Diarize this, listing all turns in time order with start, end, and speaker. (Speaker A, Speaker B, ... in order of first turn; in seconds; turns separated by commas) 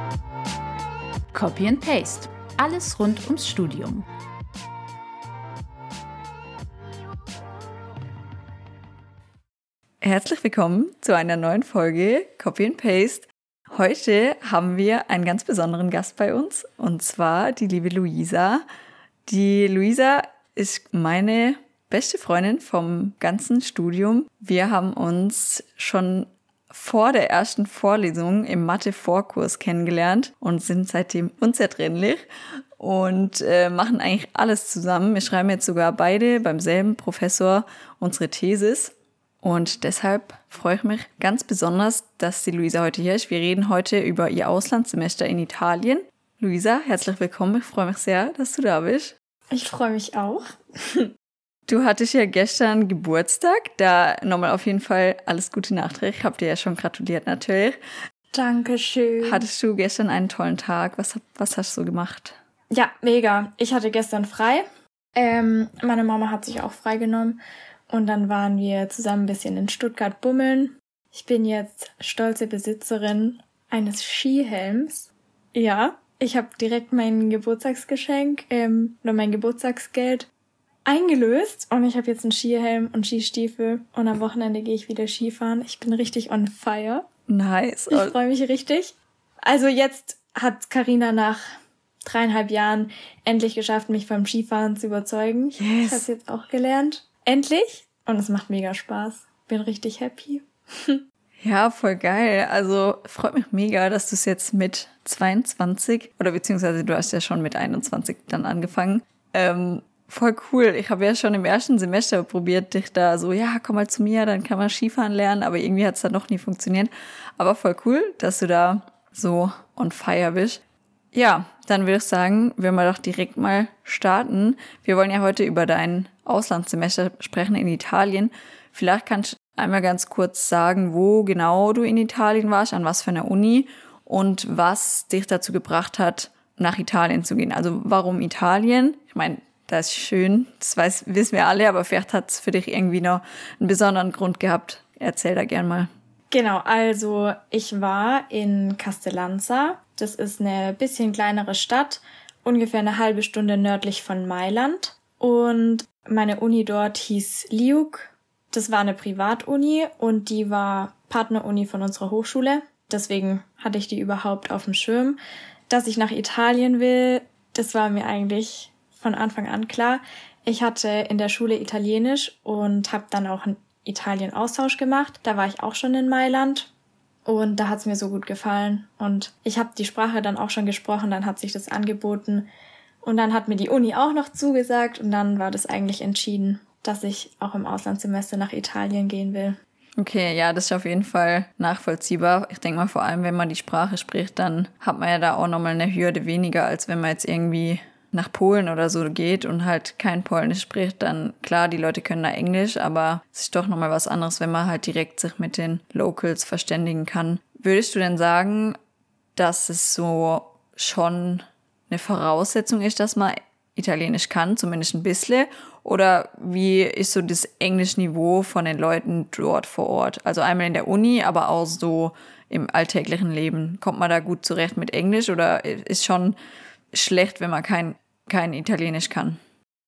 Speaker A: 1.3-4.0, Speaker B: 10.0-18.6, Speaker B: 19.3-32.2, Speaker B: 32.8-49.1, Speaker C: 49.5-51.1, Speaker B: 51.7-57.8, Speaker C: 58.3-59.4, Speaker B: 59.2-62.4, Speaker C: 62.7-67.4, Speaker C: 67.9-80.3, Speaker C: 80.8-87.0, Speaker B: 87.3-88.2, Speaker C: 87.9-91.5, Speaker C: 92.0-101.0, Speaker B: 95.6-96.0, Speaker B: 101.4-120.6, Speaker B: 121.1-145.9, Speaker C: 146.3-165.2, Speaker C: 165.7-176.7, Speaker C: 177.2-182.5, Speaker C: 183.0-189.6, Speaker B: 190.0-208.8, Speaker B: 209.3-226.3, Speaker B: 226.9-229.4